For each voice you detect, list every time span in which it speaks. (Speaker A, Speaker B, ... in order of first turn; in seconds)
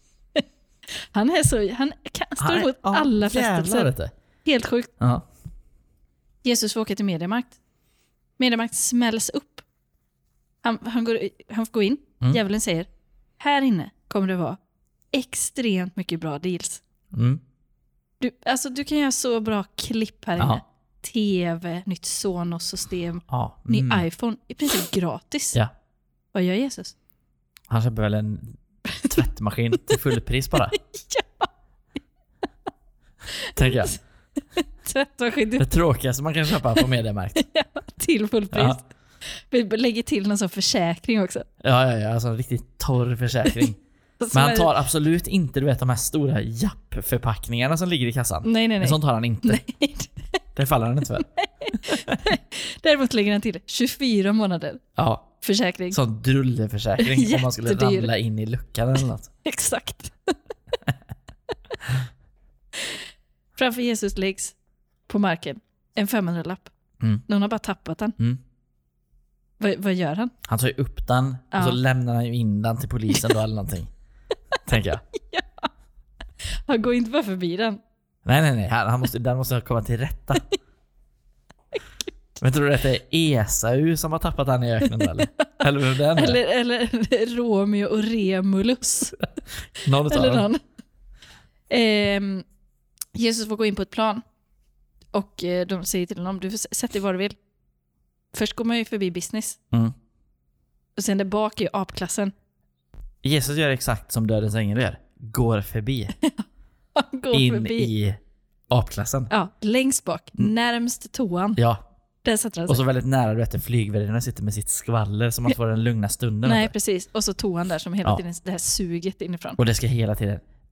Speaker A: 0.3-3.9, 4.5-4.9, 6.4-7.6, 8.4-9.7, 10.6-12.9, 13.4-14.6, 15.1-16.8, 18.2-25.6, 26.3-26.9, 28.9-30.0, 30.7-31.5, 33.3-34.0, 34.6-35.7, 36.7-41.5, 44.2-44.7, 48.4-50.1, 51.2-54.8, 55.4-56.0, 57.0-58.1, 59.4-60.3, 63.6-64.5, 65.1-66.7, 67.3-68.2, 69.6-70.3, 71.5-71.8, 75.1-75.7, 76.7-77.8, 84.8-85.5, 86.1-89.2, 89.8-90.6, 91.7-92.5, 93.2-94.2, 95.1-97.4, 98.3-99.6, 101.0-102.3, 107.0-107.9, 109.3-111.6, 112.2-112.8, 116.4-119.6
Speaker B: 2.4-4.1, 17.1-17.4, 23.3-24.1, 27.7-28.6, 29.1-30.8, 33.6-34.0, 35.6-37.4, 38.5-38.8, 41.6-43.8, 44.3-49.6, 50.6-52.2, 55.0-55.3, 55.9-59.3, 70.5-73.9, 74.7-75.0, 78.2-80.4, 82.4-86.4, 89.8-90.5, 103.2-106.1, 107.3-109.3, 111.6-111.8, 112.7-116.7, 119.6-120.4